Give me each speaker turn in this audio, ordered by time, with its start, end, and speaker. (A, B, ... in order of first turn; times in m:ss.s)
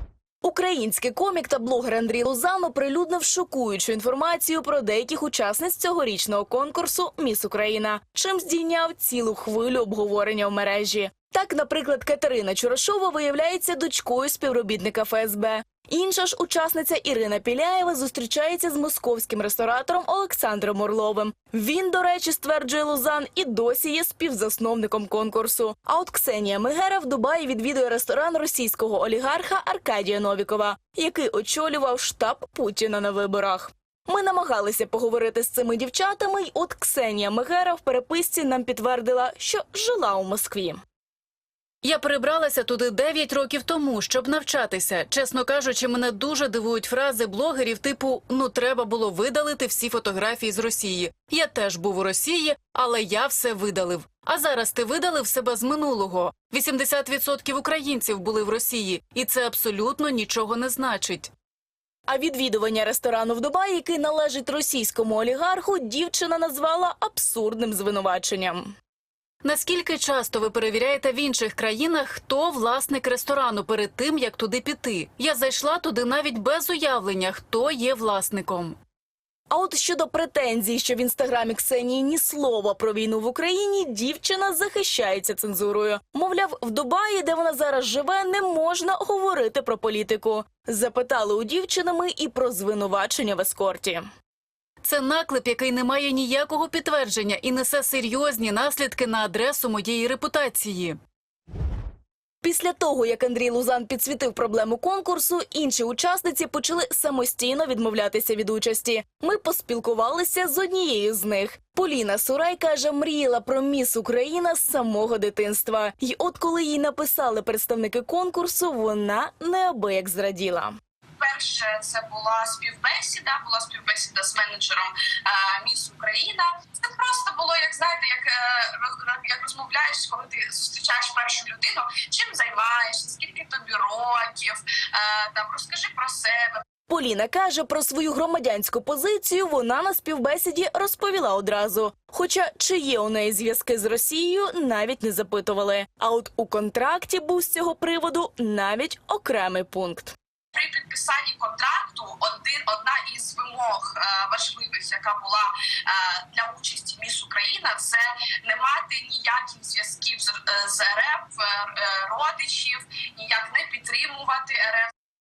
0:00.4-0:40.8 A
0:41.8-1:01.3 B
1:02.1-1:08.7 A
1:09.4-1:18.8 B
1:19.5-1:34.0 A
1:34.8-1:41.0 B
1:42.4-2:00.7 A
2:01.2-2:16.6 C
2:16.9-2:30.1 A
2:30.5-2:44.9 C